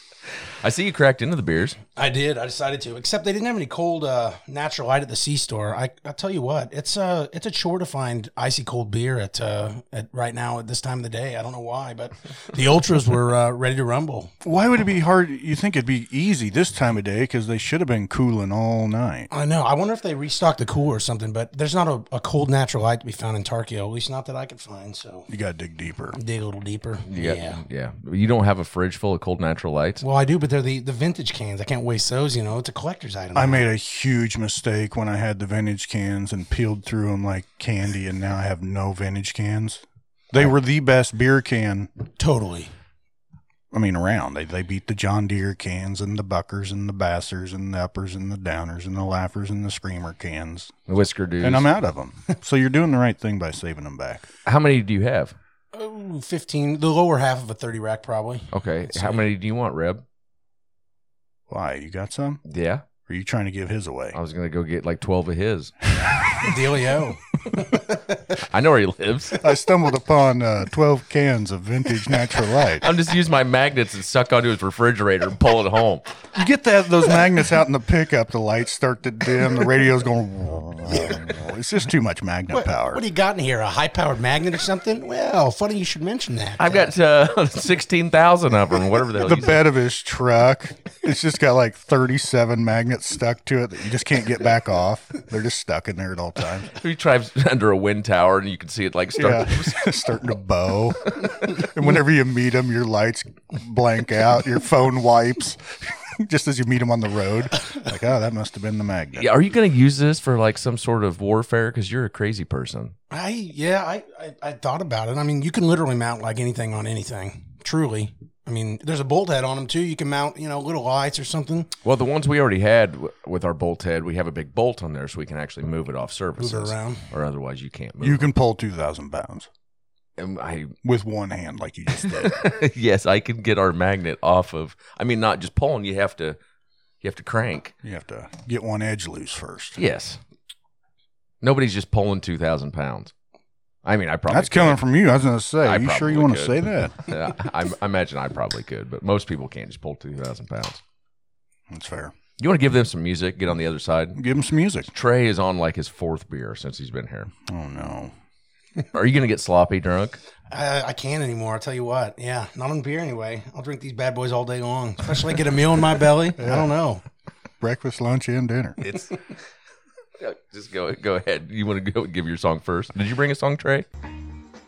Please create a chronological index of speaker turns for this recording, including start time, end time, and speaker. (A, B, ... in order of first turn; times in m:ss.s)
0:00.6-0:01.8 A
0:02.0-0:14.3 B
0:14.4-0:19.3 C
0:19.3-0:25.3 B
0:25.3-0:26.2 C
0:26.1-0:27.6 B
0:27.1-0:30.0 A
0:30.0-0:33.6 B
0:33.4-0:41.9 C
0:42.2-0:42.7 B
0:43.7-0:50.7 C
0:50.9-0:51.7 A
0:51.4-0:54.3 C
0:54.4-0:55.4 A
0:55.7-0:58.5 B
0:58.5-1:00.0 A
1:01.5-1:02.4 C
1:02.5-1:02.8 A
1:03.1-1:04.2 C
1:04.1-1:05.8 A
1:06.5-1:08.2 B
1:08.3-1:09.5 A
1:09.4-1:12.9 C
1:12.8-1:16.0 A
1:16.4-1:23.0 C
1:20.9-1:21.3 B
1:22.5-1:26.9 B
1:26.6-1:29.6 A
1:29.2-1:36.7 C
1:36.8-1:40.0 A
1:39.2-1:49.3 C
1:49.2-1:52.9 A
1:53.1-2:01.7 B
2:01.8-2:08.3 A
2:06.4-2:07.1 B
2:08.0-2:09.5 C
2:10.2-2:10.7 A
2:10.8-2:12.5 C
2:12.2-2:16.4 A
2:17.0-2:17.7 A
2:17.8-2:19.8 C
2:19.8-2:20.2 A
2:21.4-2:23.1 A
2:23.8-2:24.8 A
2:24.3-2:27.0 C
2:25.6-2:30.8 A
2:31.7-2:32.1 C
2:32.4-2:34.2 A
2:34.2-2:34.9 C
2:34.9-2:37.3 A
2:37.5-2:38.1 C
2:38.9-2:40.2 A
2:40.5-2:47.0 B
2:46.4-2:46.7 C
2:47.6-2:48.8 C
2:48.8-2:49.2 A
2:50.2-2:53.9 A